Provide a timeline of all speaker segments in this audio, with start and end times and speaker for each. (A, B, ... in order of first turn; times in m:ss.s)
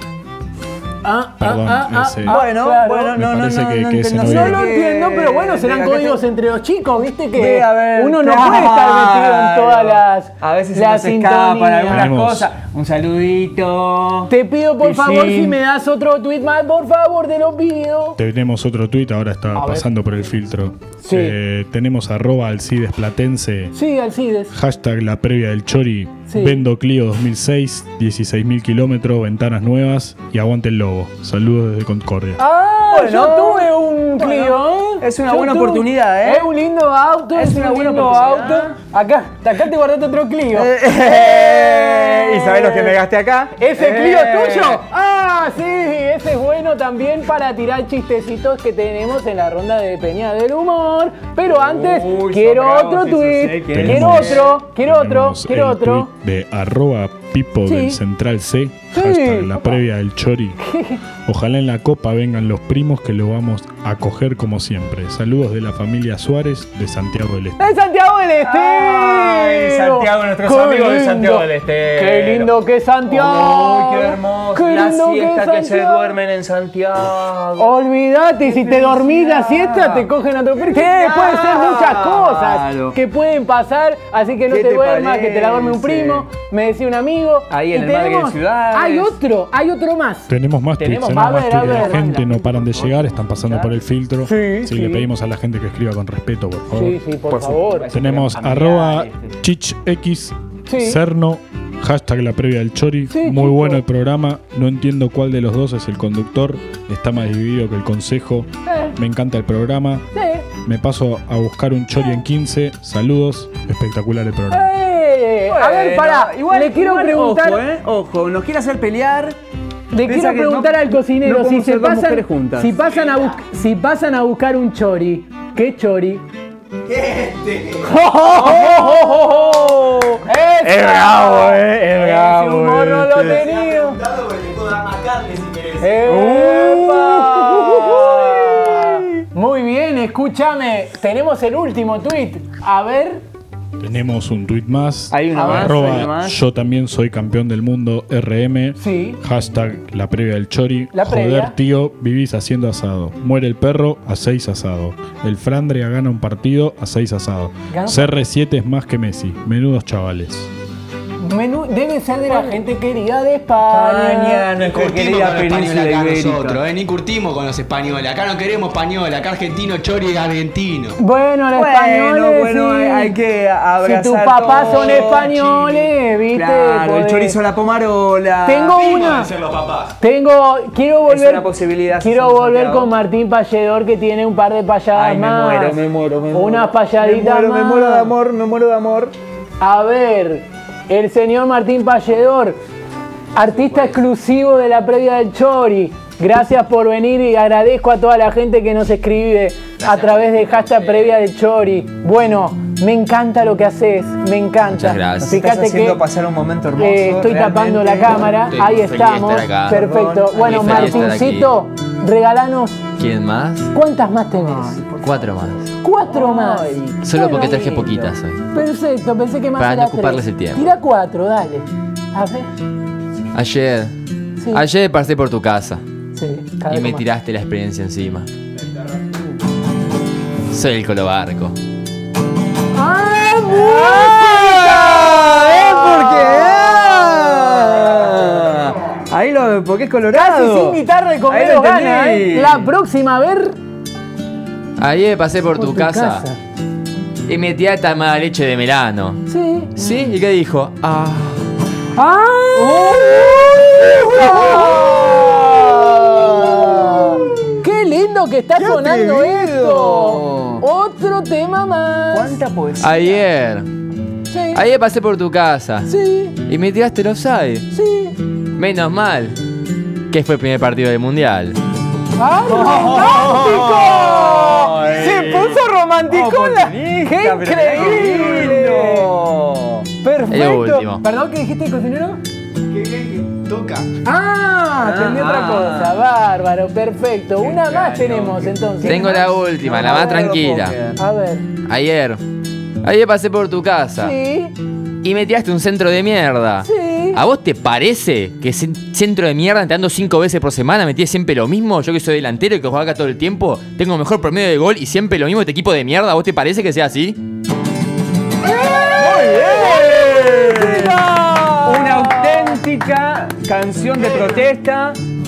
0:01.0-0:03.2 A
0:01.4-0:02.4 B
0:02.2-0:06.2 C
0:03.1-0:04.6 B
0:04.2-0:12.1 A
0:07.3-0:15.6 C
0:11.9-0:12.5 B
0:14.3-0:18.2 A
0:18.2-0:23.7 B
0:19.5-0:19.9 A
0:21.0-0:21.4 A
0:23.7-0:24.5 A
0:24.5-0:32.4 B
0:26.3-0:26.6 A
0:32.4-0:42.9 A
0:32.9-0:36.5 C
0:37.3-0:38.7 C
0:40.5-0:44.8 C
0:43.6-0:56.1 A
0:51.5-0:54.5 C
0:53.7-1:00.6 B
0:57.6-0:58.0 A
0:58.9-0:59.8 A
1:00.6-1:01.0 A
1:01.2-1:07.6 B
1:07.6-1:16.1 A
1:08.4-1:12.5 C
1:13.1-1:17.8 C
1:17.6-1:30.3 A
1:18.4-1:20.1 C
1:20.6-1:23.0 C
1:24.5-1:26.3 C
1:27.5-1:29.2 C
1:30.3-1:37.0 B
1:30.8-1:33.7 C
1:31.1-1:32.0 A
1:34.2-1:35.1 A
1:36.7-1:37.9 A
1:37.3-1:39.3 C
1:37.9-1:50.0 B
1:40.7-1:41.0 A
1:43.1-1:43.8 A
1:48.7-1:49.0 A
1:50.1-1:50.4 A
1:50.6-1:54.7 B
1:54.5-1:57.6 A
1:55.5-1:59.4 C
1:59.9-2:06.2 A
2:00.0-2:02.9 C
2:06.9-2:13.4 C
2:07.8-2:09.6 A
2:10.2-2:14.0 A
2:13.2-2:15.9 D
2:15.8-2:19.2 C
2:15.8-2:23.2 A
2:23.8-2:40.5 B
2:25.1-2:26.4 C
2:28.8-2:29.2 A
2:30.9-2:31.6 A
2:37.7-2:38.2 A
2:41.2-2:44.5 A
2:42.3-2:42.6 C
2:43.7-2:46.6 C
2:44.7-2:51.0 D
2:51.0-2:53.1 A
2:51.5-2:59.0 C
2:53.8-2:57.4 A
2:54.6-2:55.7 D
2:58.4-2:59.3 A
2:58.8-2:59.9 D
3:00.0-3:05.8 A
3:01.1-3:02.9 C
3:04.9-3:09.1 C
3:06.3-3:08.1 A
3:09.6-3:12.6 A
3:13.3-3:26.0 A
3:19.8-3:21.1 E
3:24.7-3:25.4 E
3:25.2-3:28.3 C
3:26.8-3:32.8 A
3:28.5-3:29.8 E
3:29.7-3:31.2 C
3:30.4-3:31.5 E
3:33.0-3:33.7 E
3:33.7-3:34.8 A
3:34.3-3:38.1 C
3:35.0-3:35.7 E
3:35.8-3:37.6 A
3:37.0-3:38.4 E
3:38.5-3:42.5 A
3:39.6-3:40.6 E
3:43.3-3:43.9 E
3:44.4-3:44.6 A
3:44.5-3:45.8 E
3:46.1-3:47.0 A
3:46.7-3:48.3 E
3:50.5-3:51.5 E
3:52.7-3:56.7 A
3:53.5-4:02.7 C
4:00.1-4:03.6 A
4:04.8-4:06.2 E
4:05.5-4:06.4 A
4:07.3-4:09.2 E
4:09.3-4:09.7 A
4:09.7-4:11.3 E
4:12.0-4:22.4 A
4:12.5-4:17.6 C
4:18.5-4:20.6 C
4:22.1-4:23.2 C
4:22.8-4:23.6 E
4:24.3-4:24.6 A
4:24.5-4:27.6 E
4:25.8-4:26.4 A
4:27.7-4:28.2 A
4:28.6-4:29.4 E
4:30.1-4:31.6 E
4:32.2-4:39.1 A
4:32.5-4:39.9 C
4:40.0-4:42.2 A
4:40.3-4:41.0 E
4:42.7-4:43.9 D
4:44.0-4:49.9 A
4:44.8-4:46.0 C
4:47.4-4:51.0 C
4:48.8-4:50.8 E
4:51.0-4:51.4 A
4:51.7-4:52.2 E
4:52.8-4:54.1 E
4:54.0-4:54.5 A
4:55.0-5:07.2 E
4:56.6-4:57.2 A
5:08.4-5:12.6 A
5:09.0-5:15.0 C